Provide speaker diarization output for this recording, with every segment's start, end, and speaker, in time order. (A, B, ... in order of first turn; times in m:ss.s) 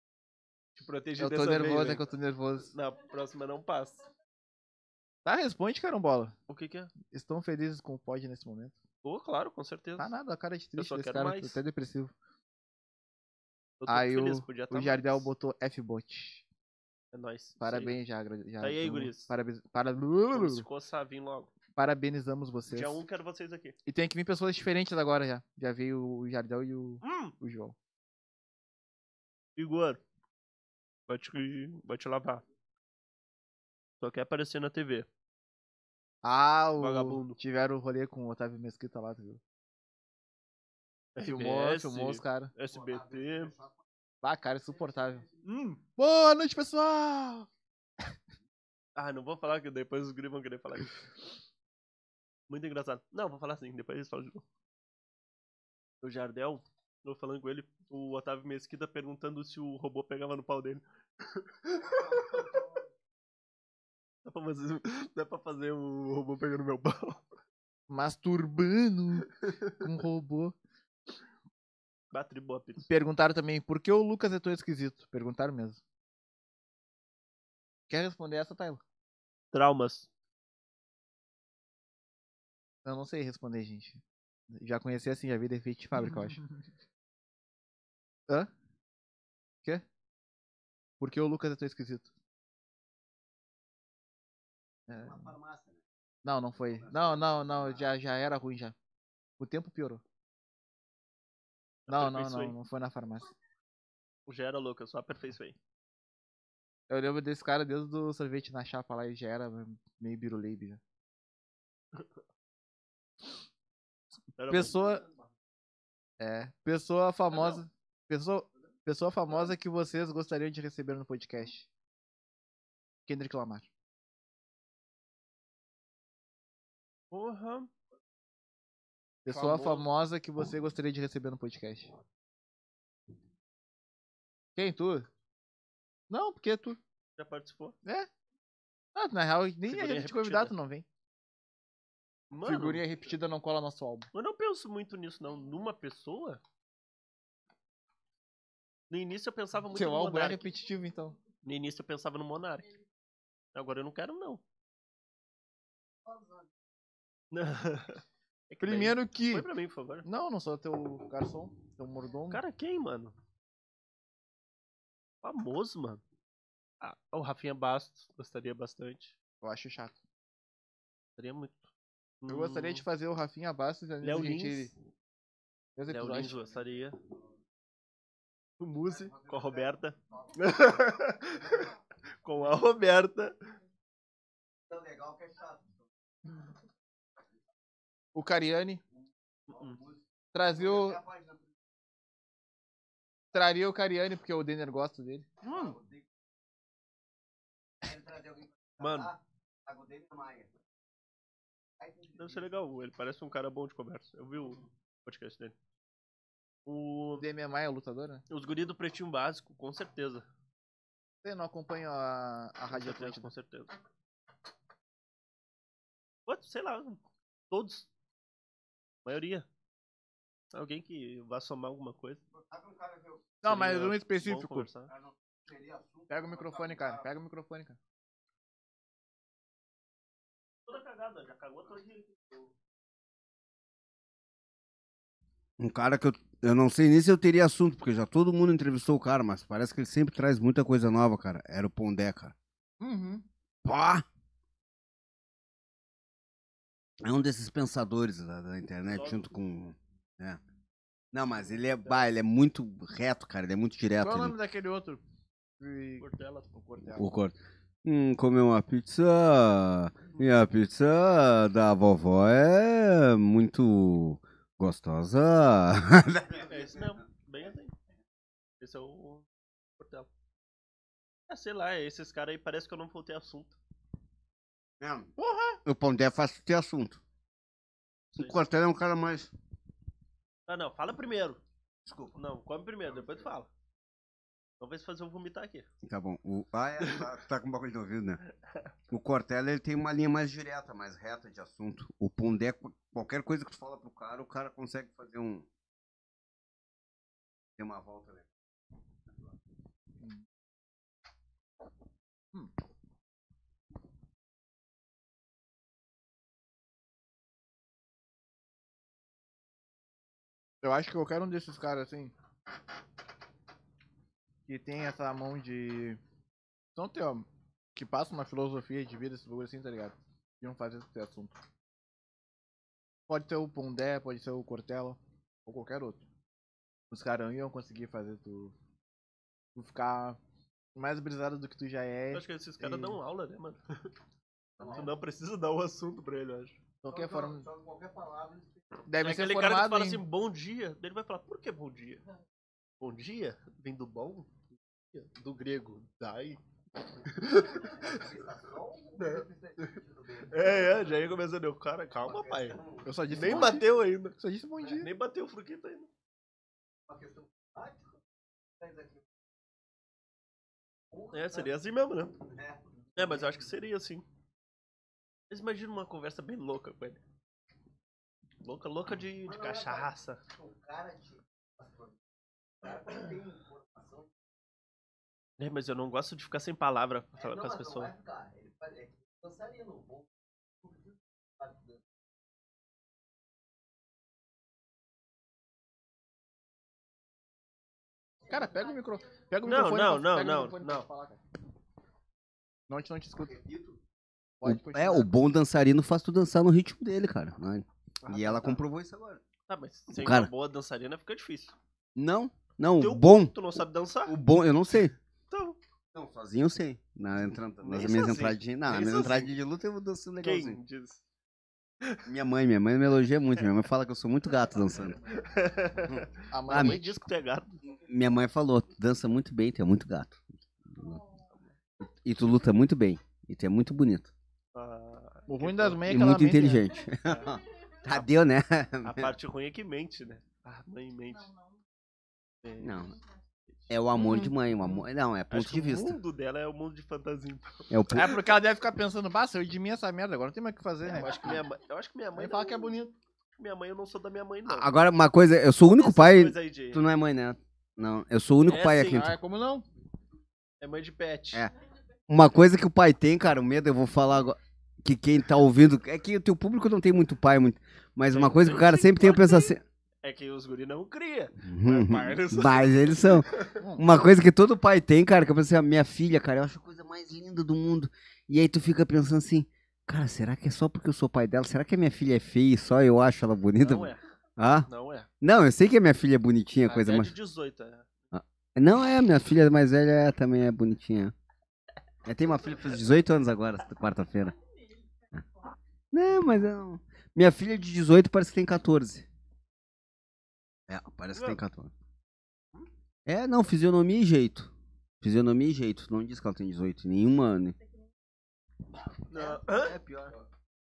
0:00.8-0:02.1 A
0:01.2-0:02.7 B
0:02.7-0:04.0 A
0:05.2-0:06.4 B
0:06.5-0:06.9 A
0:07.0-0:08.8 B
0:09.0-0:10.1 A
0:10.0-0:12.1 B
0:10.8-0:11.6 A
0:13.8-0:15.3 A
0:13.9-0:16.4 B
0:17.1-0:18.0 A
0:17.6-0:20.7 B
0:18.6-0:19.3 A
0:20.3-0:21.5 A
0:21.8-0:23.0 B
0:22.7-0:23.8 A
0:23.9-0:27.8 B
0:27.0-0:27.3 A
0:29.6-0:30.0 A
0:31.1-0:32.4 A
0:34.0-0:35.1 A
0:36.2-0:39.4 B
0:36.8-0:37.4 A
0:41.2-0:43.6 A
0:41.2-0:42.5 B
0:44.2-0:47.5 B
0:45.4-0:45.8 A
0:49.0-0:51.1 A
0:52.5-0:54.4 A
0:56.0-1:02.6 A
1:04.2-1:07.2 A
1:07.9-1:10.6 B
1:12.1-1:12.9 A
1:12.9-1:15.8 B
1:17.9-1:18.8 B
1:19.5-1:20.1 A
1:22.8-1:24.0 B
1:24.5-1:26.4 B
1:31.0-1:32.1 B
1:34.9-1:35.3 B
1:35.2-1:35.8 C
1:36.2-1:38.8 B
1:39.4-1:40.0 B
1:41.9-1:42.6 A
1:41.9-1:43.3 B
1:44.3-1:45.6 A
1:46.9-1:50.8 B
1:54.4-1:55.0 A
1:54.5-1:55.0 B
1:56.2-2:01.7 B
1:57.3-1:57.6 A
2:03.1-2:03.7 B
2:07.1-2:07.7 A
2:09.3-2:11.9 B
2:09.3-2:09.9 A
2:14.6-2:15.1 B
2:16.1-2:16.8 B
2:17.2-2:17.8 A
2:19.0-2:20.8 B
2:19.7-2:20.5 A
2:22.3-2:22.8 A
2:22.4-2:24.1 B
2:24.1-2:26.4 A
2:28.9-2:30.4 A
2:29.7-2:31.2 B
2:31.4-2:32.7 A
2:33.5-2:34.4 A
2:37.3-2:40.1 A
2:38.6-2:39.5 B
2:40.0-2:42.4 B
2:42.3-2:43.2 A
2:45.2-2:46.0 A
2:46.8-2:49.2 A
2:49.4-2:50.0 B
2:51.2-2:51.7 A
2:52.2-2:52.8 A
2:52.3-2:54.7 B
2:54.0-2:54.7 A
2:55.8-2:56.4 B
2:55.9-2:57.0 A
2:58.6-3:03.4 A
3:04.7-3:05.7 C
3:08.1-3:08.8 B
3:09.5-3:09.8 A
3:09.7-3:10.0 C
3:10.3-3:11.0 B
3:10.8-3:11.4 C
3:13.3-3:15.4 B
3:15.4-3:15.7 A
3:15.5-3:16.0 C
3:17.8-3:20.5 C
3:18.8-3:19.1 A
3:21.8-3:22.4 C
3:22.1-3:25.6 A
3:26.7-3:27.3 A
3:27.2-3:28.2 B
3:28.3-3:30.3 A
3:31.2-3:33.3 B
3:32.7-3:33.7 A
3:36.3-3:37.9 A
3:39.0-3:39.5 A
3:40.5-3:42.2 A
3:42.5-3:43.2 C
3:43.4-3:44.7 B
3:43.4-3:44.9 A
3:45.0-3:47.0 C
3:46.1-3:47.8 B
3:50.7-3:52.5 A
3:55.6-4:02.3 C
4:02.8-4:03.2 B
4:03.6-4:04.0 C
4:07.0-4:10.4 C
4:08.9-4:09.3 A
4:11.1-4:14.4 C
4:11.6-4:12.1 A
4:14.0-4:15.0 B
4:15.6-4:17.1 B
4:16.0-4:16.6 A
4:17.0-4:26.9 C
4:26.4-4:27.7 A
4:28.6-4:29.3 A
4:29.8-4:30.1 A
4:31.3-4:33.6 A
4:34.8-4:35.1 C
4:35.2-4:35.6 B
4:35.6-4:37.0 C
4:38.1-4:38.4 A
4:38.2-4:39.3 C
4:40.5-4:41.4 A
4:41.8-4:42.2 C
4:42.2-4:43.5 A
4:44.6-4:45.7 A
4:45.8-4:48.2 C
4:46.8-4:47.1 A
4:48.9-4:55.5 C
4:57.6-4:58.3 C
5:10.6-5:12.1 B
5:14.5-5:16.0 B
5:16.8-5:21.4 B
5:23.1-5:26.0 B
5:26.9-5:28.5 B
5:29.6-5:30.2 B
5:30.8-5:33.0 B
5:32.1-5:33.6 A
5:34.6-5:36.6 A
5:36.8-5:37.5 B
5:36.9-5:38.6 C
5:38.9-5:40.0 B
5:39.0-5:42.0 A
5:42.8-5:44.4 A
5:44.9-5:46.4 A
5:47.0-5:48.2 A
5:47.6-5:51.0 C
5:49.0-5:54.2 A
5:52.0-5:52.9 C
5:52.8-5:54.9 B
5:54.7-5:55.9 A
5:56.9-5:58.0 C
5:58.6-5:59.0 C
6:00.9-6:01.5 C
6:01.1-6:02.1 A
6:02.2-6:02.6 C
6:03.0-6:04.0 A
6:05.3-6:07.0 A
6:08.4-6:10.2 A
6:09.3-6:11.9 C
6:12.6-6:14.1 C
6:15.4-6:17.9 A
6:17.2-6:20.1 C
6:21.4-6:21.7 C
6:28.3-6:31.2 B
6:29.4-6:30.9 A
6:32.7-6:33.4 B
6:33.4-6:33.8 C
6:34.4-6:35.1 B
6:34.4-6:39.2 C
6:38.0-6:38.6 A
6:39.5-6:41.6 A
6:39.9-6:40.3 C
6:42.0-6:43.4 C
6:42.8-6:44.2 A
6:44.1-6:45.0 C
6:45.3-6:45.6 A
6:45.9-6:50.6 C
6:47.6-6:49.3 A
6:50.2-6:51.0 A
6:52.0-6:55.0 C
6:55.1-6:57.6 A
6:55.9-6:56.8 C
6:56.3-6:56.9 B
6:57.7-7:01.0 C
7:01.8-7:04.1 C
7:04.5-7:06.0 A
7:05.3-7:06.7 B
7:05.8-7:09.1 C
7:07.0-7:07.4 A
7:08.8-7:11.3 A
7:12.4-7:12.9 A
7:12.6-7:13.0 C
7:13.7-7:16.0 C
7:15.3-7:17.7 A
7:17.7-7:18.2 C
7:17.9-7:21.3 B
7:20.8-7:22.7 A
7:22.2-7:23.0 B
7:23.4-7:24.7 A
7:24.5-7:29.2 C
7:25.7-7:26.8 A
7:28.4-7:29.1 A
7:28.9-7:29.6 B
7:30.6-7:31.5 A
7:32.1-7:39.6 C
7:38.1-7:43.6 A
7:41.4-7:54.7 C
7:43.6-7:43.8 B
7:53.6-7:54.0 A
7:54.7-7:55.1 A
7:55.2-7:57.1 C
7:56.6-7:57.9 A
7:58.1-8:01.1 C
8:02.0-8:04.4 C
8:05.9-8:09.1 C
8:10.7-8:11.7 C
8:13.1-8:17.6 C
8:19.1-8:20.2 C
8:19.1-8:19.8 A